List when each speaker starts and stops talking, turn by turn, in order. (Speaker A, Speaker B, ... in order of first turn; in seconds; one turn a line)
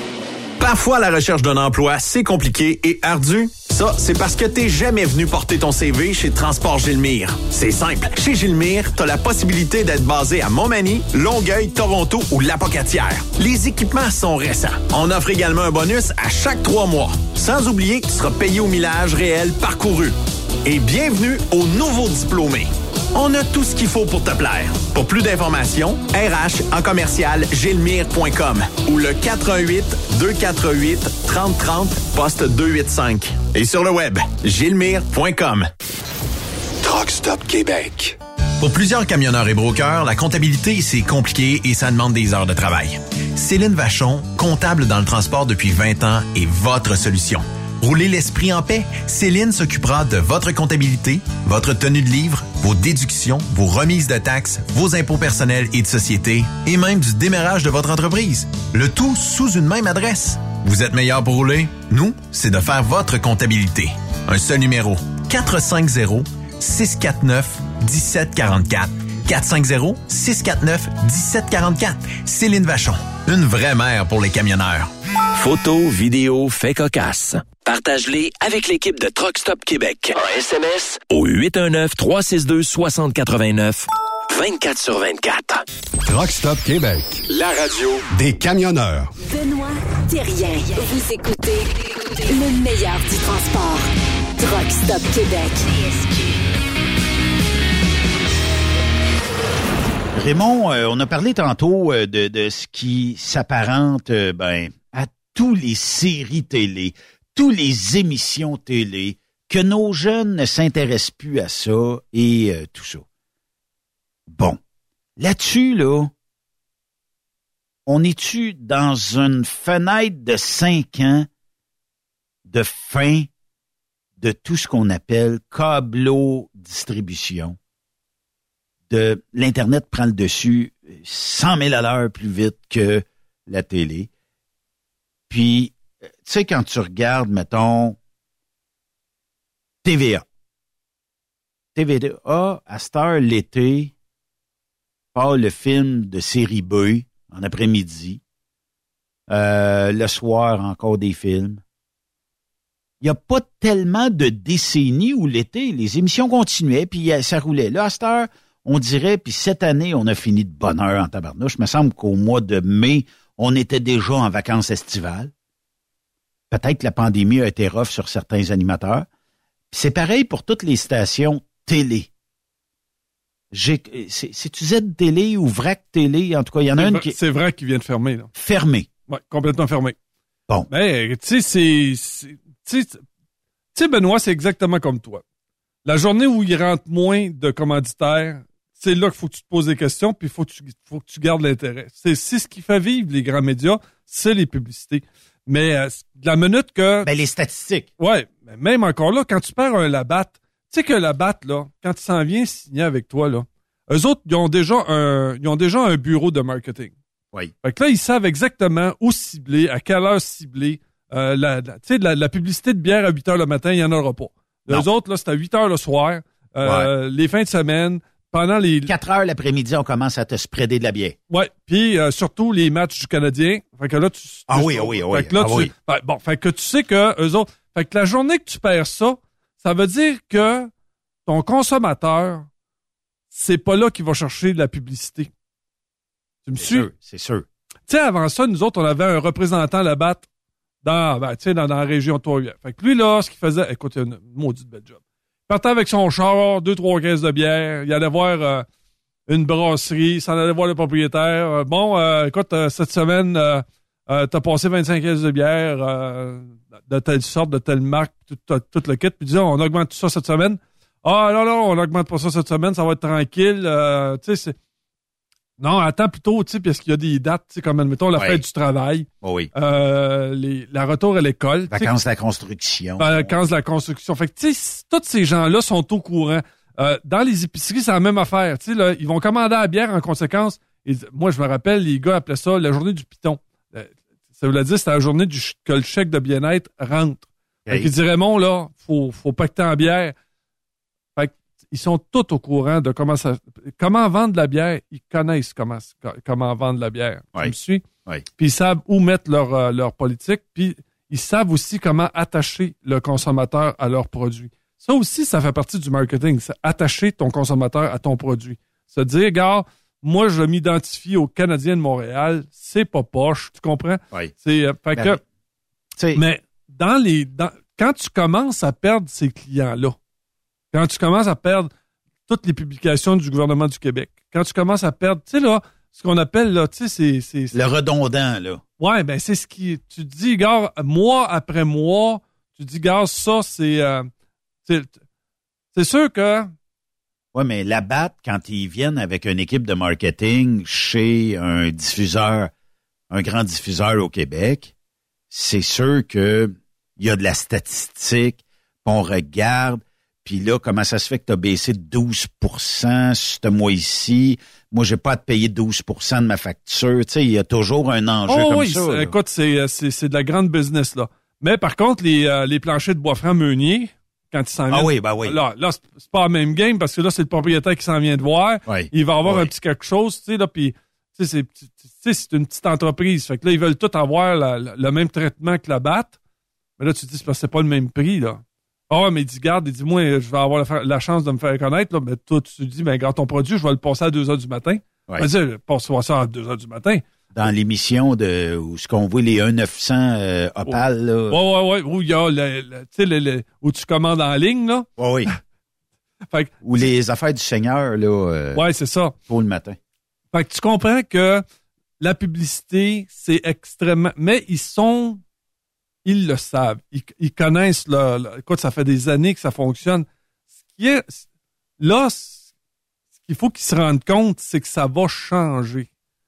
Speaker A: 0.6-35.7
Speaker B: 36.8-38.2
Speaker A: 38.6-74.9
Speaker C: 75.4-85.6
Speaker B: 86.1-89.1
Speaker D: 89.2-91.7
Speaker D: 92.3-96.3
Speaker E: 100.2-113.0
Speaker E: 114.3-114.6
Speaker E: 115.2-116.1
Speaker E: 117.9-121.3
Speaker E: 122.5-123.3
Speaker E: 124.2-127.6
Speaker E: 128.9-134.1
Speaker E: 135.3-138.0
Speaker E: 139.8-140.2
Speaker E: 141.8-143.9
Speaker E: 145.1-148.2
Speaker E: 149.3-151.6
Speaker E: 153.0-165.3
Speaker E: 166.5-169.1
Speaker E: 169.7-172.1
Speaker E: 173.5-177.1
Speaker F: 176.8-178.3
Speaker E: 178.4-178.9
Speaker F: 179.1-180.0
Speaker F: 180.7-183.0
Speaker F: 183.7-185.2
Speaker F: 185.8-197.1
Speaker E: 197.0-197.9
Speaker F: 198.0-206.9
Speaker F: 207.6-218.9
Speaker E: 216.6-216.9
Speaker E: 218.9-221.2
Speaker F: 221.3-230.7
Speaker E: 224.5-225.7
Speaker F: 231.3-232.5
Speaker F: 233.3-235.3
Speaker F: 236.4-236.9
Speaker E: 236.6-237.5
Speaker F: 237.9-240.3
Speaker F: 240.8-248.7
Speaker F: 249.3-264.6
Speaker F: 265.6-271.9
Speaker E: 268.2-268.4
Speaker E: 269.2-269.5
Speaker E: 271.7-273.4
Speaker F: 273.0-290.1
Speaker F: 291.2-297.9
Speaker F: 298.4-315.2
Speaker F: 316.1-320.0
Speaker F: 320.7-321.7
Speaker F: 322.3-327.6
Speaker E: 327.5-328.6
Speaker F: 328.8-334.1
Speaker F: 334.7-334.9
Speaker F: 335.7-336.5
Speaker E: 337.3-342.5
Speaker E: 343.1-344.7
Speaker E: 345.3-359.1
Speaker F: 358.3-376.1
Speaker E: 364.7-365.4
Speaker E: 368.7-369.5
Speaker F: 376.8-387.1
Speaker E: 387.4-391.4
Speaker F: 390.7-394.9
Speaker E: 395.0-395.3
Speaker F: 396.3-396.6
Speaker E: 396.6-398.6
Speaker F: 398.6-399.1
Speaker E: 399.3-399.8
Speaker F: 400.3-401.4
Speaker F: 402.0-405.2
Speaker F: 406.1-410.1
Speaker F: 410.7-411.2
Speaker F: 411.8-412.4
Speaker F: 413.2-415.9